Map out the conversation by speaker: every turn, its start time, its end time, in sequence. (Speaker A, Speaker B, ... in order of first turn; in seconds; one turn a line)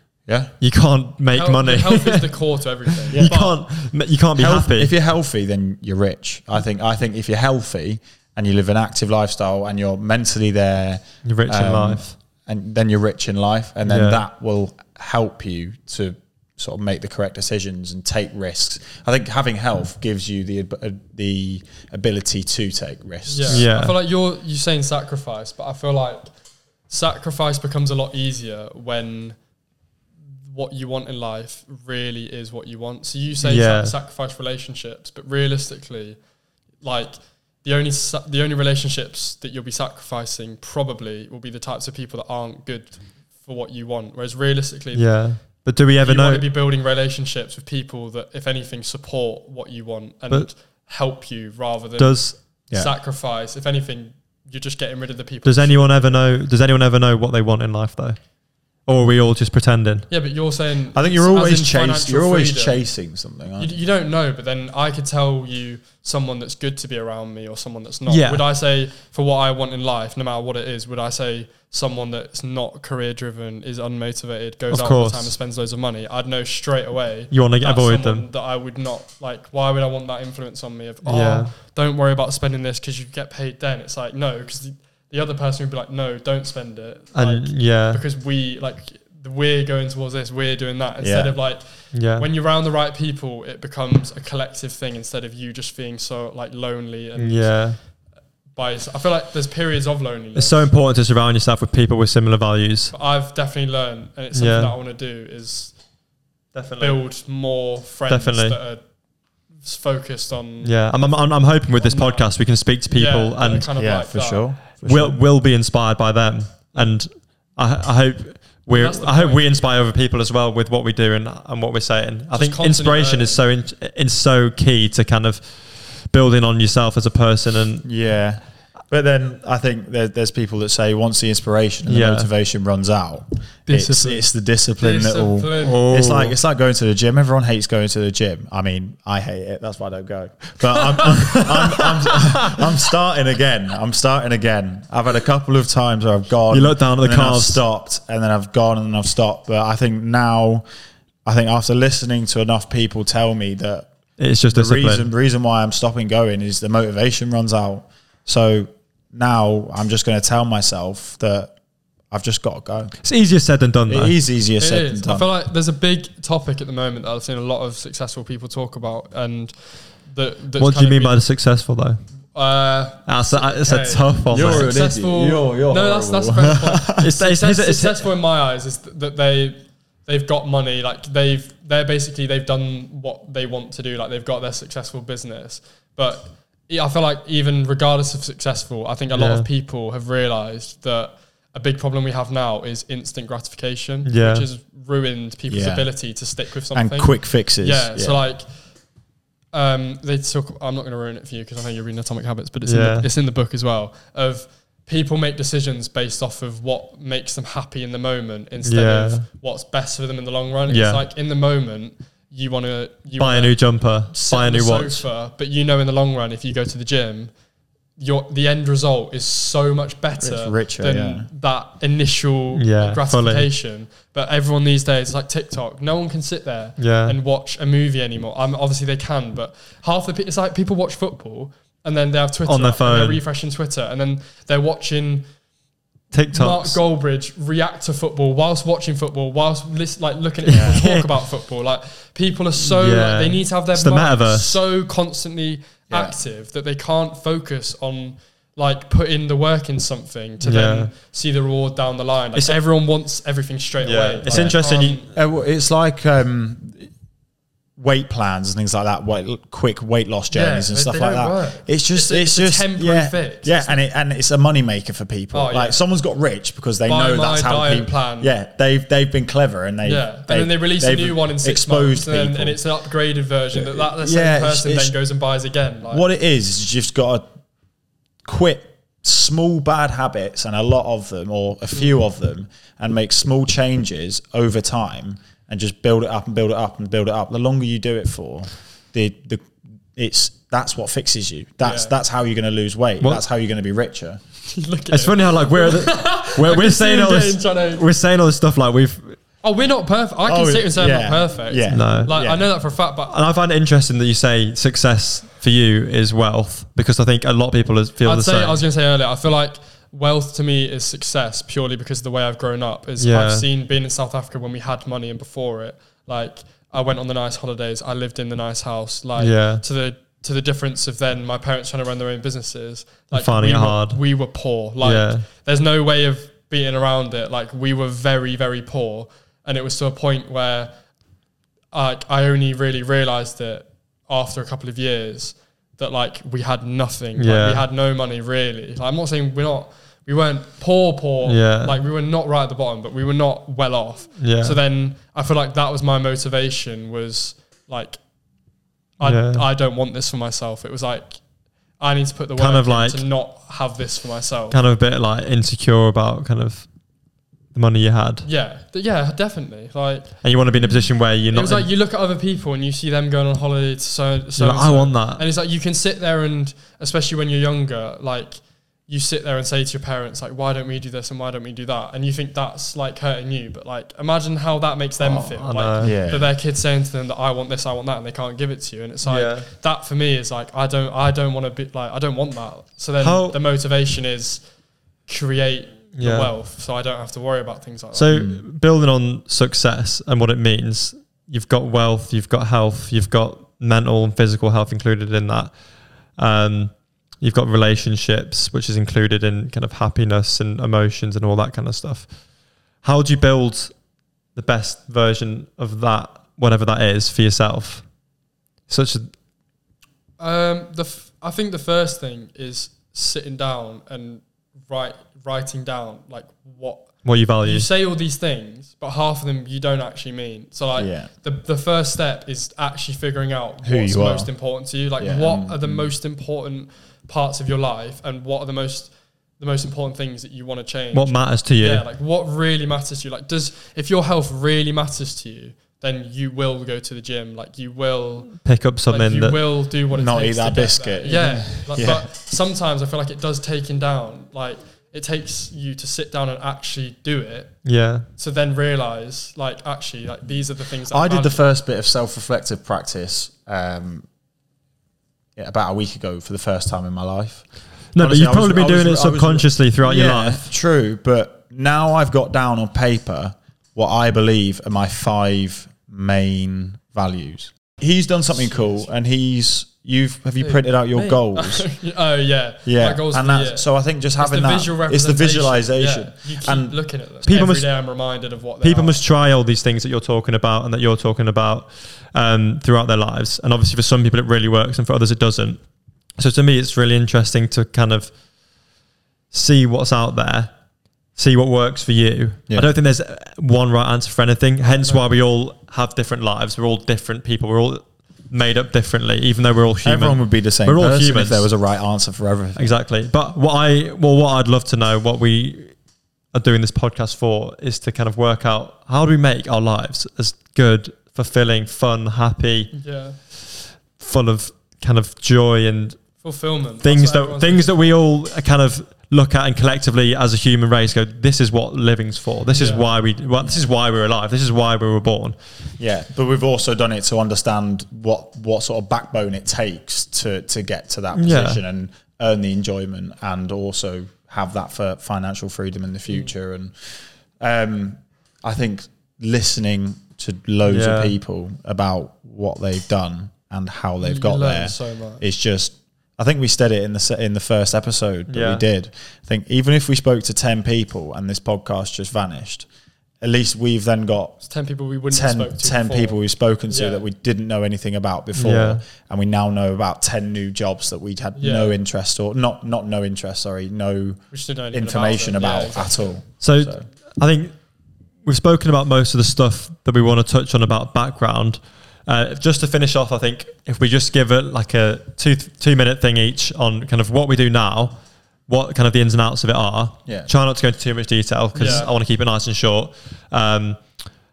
Speaker A: 0.2-0.5
Speaker B: 0.6-2.3
Speaker C: 1.4-3.6
Speaker B: 2.9-4.9
Speaker A: 4.3-23.7
Speaker B: 11.2-12.1
Speaker B: 13.9-14.2
Speaker C: 23.3-26.2
Speaker B: 23.5-23.9
Speaker C: 26.9-29.4
Speaker C: 30.5-36.2
Speaker B: 33.4-33.9
Speaker C: 36.8-45.2
Speaker B: 44.9-46.5
Speaker C: 46.0-56.2
Speaker B: 52.0-52.3
Speaker B: 55.4-58.2
Speaker B: 58.9-60.1
Speaker C: 60.1-62.8
Speaker A: 60.9-63.8
Speaker C: 63.6-97.7
Speaker B: 68.1-68.4
Speaker B: 74.7-75.3
Speaker B: 77.3-78.2
Speaker B: 81.0-81.5
Speaker B: 87.1-88.0
Speaker A: 91.0-91.3
Speaker B: 91.9-92.3
Speaker B: 97.2-97.8
Speaker C: 98.5-100.7
Speaker B: 100.3-102.9
Speaker C: 102.9-105.8
Speaker B: 104.3-104.7
Speaker B: 106.5-107.0
Speaker C: 106.8-108.8
Speaker B: 108.1-108.6
Speaker C: 109.6-110.9
Speaker B: 110.6-113.7
Speaker C: 111.8-112.3
Speaker C: 112.9-114.5
Speaker A: 113.8-115.2
Speaker B: 114.8-127.8
Speaker C: 118.7-119.5
Speaker C: 122.3-123.4
Speaker A: 127.8-150.6
Speaker B: 131.8-132.3
Speaker C: 133.7-134.3
Speaker C: 134.8-135.8
Speaker B: 135.6-136.3
Speaker B: 141.1-142.6
Speaker B: 146.5-147.6
Speaker A: 151.2-153.9
Speaker B: 154.2-155.1
Speaker A: 154.5-161.5
Speaker A: 162.1-162.9
Speaker B: 163.0-164.1
Speaker A: 163.9-165.3
Speaker C: 164.6-171.2
Speaker B: 170.6-172.0
Speaker C: 172.3-198.4
Speaker B: 173.1-174.7
Speaker A: 174.3-177.1
Speaker B: 177.0-178.1
Speaker B: 189.1-189.5
Speaker B: 194.0-194.5
Speaker A: 195.5-195.9
Speaker A: 196.7-198.2
Speaker C: 199.5-217.3
Speaker B: 202.6-203.1
Speaker B: 208.6-209.2
Speaker B: 210.7-211.0
Speaker B: 213.2-215.0
Speaker C: 218.0-235.2
Speaker A: 220.2-221.3
Speaker B: 222.5-223.5
Speaker B: 226.8-227.2
Speaker B: 232.4-233.2
Speaker B: 236.1-236.8
Speaker C: 236.3-255.1
Speaker B: 240.4-241.1
Speaker A: 240.5-240.8
Speaker B: 242.6-244.6
Speaker A: 245.9-246.2
Speaker B: 250.4-250.9
Speaker B: 253.8-255.0
Speaker A: 254.3-254.6
Speaker A: 255.1-256.9
Speaker A: 257.8-272.6
Speaker C: 260.3-263.8
Speaker C: 265.3-265.8
Speaker C: 266.9-268.3
Speaker C: 269.8-276.1
Speaker A: 273.5-274.9
Speaker A: 275.9-277.2
Speaker A: 278.2-294.2
Speaker C: 291.6-291.9
Speaker C: 294.5-297.9
Speaker B: 294.9-299.2
Speaker C: 299.4-303.1
Speaker A: 300.2-302.5
Speaker B: 301.7-302.1
Speaker B: 303.1-308.6
Speaker C: 308.0-330.7
Speaker B: 313.0-313.4
Speaker B: 319.2-319.6
Speaker B: 323.1-324.0
Speaker B: 324.8-325.2
Speaker C: 331.7-348.0
Speaker B: 337.1-337.6
Speaker B: 341.2-341.8
Speaker B: 344.2-344.6
Speaker C: 349.0-351.2
Speaker B: 349.0-349.4
Speaker C: 351.8-354.6
Speaker B: 352.4-353.0
Speaker B: 354.5-356.7
Speaker B: 357.5-358.3
Speaker C: 358.2-360.2
Speaker B: 360.2-361.7
Speaker A: 360.6-360.9
Speaker C: 361.3-384.4
Speaker B: 364.4-365.2
Speaker B: 375.0-375.9
Speaker A: 375.8-376.3
Speaker B: 379.0-379.5
Speaker B: 383.0-383.4
Speaker C: 385.1-388.1
Speaker B: 385.9-386.3
Speaker B: 387.9-395.5
Speaker A: 388.1-388.4
Speaker B: 396.2-402.1
Speaker B: 402.8-403.7
Speaker B: 404.3-407.8
Speaker B: 408.7-409.1
Speaker C: 410.2-447.6
Speaker B: 417.0-417.7
Speaker A: 420.7-421.1
Speaker A: 423.6-424.3
Speaker A: 425.0-425.9
Speaker B: 430.9-431.8
Speaker B: 438.4-439.4
Speaker A: 439.9-442.1
Speaker B: 447.6-448.1
Speaker C: 448.1-451.4
Speaker A: 450.9-454.1
Speaker A: 455.4-457.4
Speaker B: 457.9-460.5
Speaker A: 458.0-471.6
Speaker C: 468.4-468.8
Speaker C: 470.4-479.0
Speaker A: 472.6-476.8
Speaker B: 477.2-477.7
Speaker B: 478.6-485.6
Speaker B: 486.2-488.1
Speaker B: 489.3-490.5
Speaker B: 491.1-501.5
Speaker C: 494.6-495.0
Speaker A: 499.8-502.7
Speaker B: 502.6-505.8
Speaker B: 506.3-512.7
Speaker C: 512.7-513.2
Speaker B: 514.0-516.0
Speaker C: 516.2-517.9
Speaker B: 516.8-525.4
Speaker C: 522.5-522.9
Speaker A: 525.8-552.7
Speaker B: 531.1-531.6
Speaker B: 540.6-541.1
Speaker C: 544.0-545.2
Speaker B: 548.3-548.6
Speaker A: 553.2-554.4
Speaker C: 554.5-557.0
Speaker A: 555.1-566.9
Speaker B: 558.3-558.8
Speaker C: 561.4-561.8
Speaker C: 564.3-566.1
Speaker B: 566.4-567.5
Speaker B: 568.2-578.0
Speaker B: 578.5-583.8
Speaker C: 581.5-581.9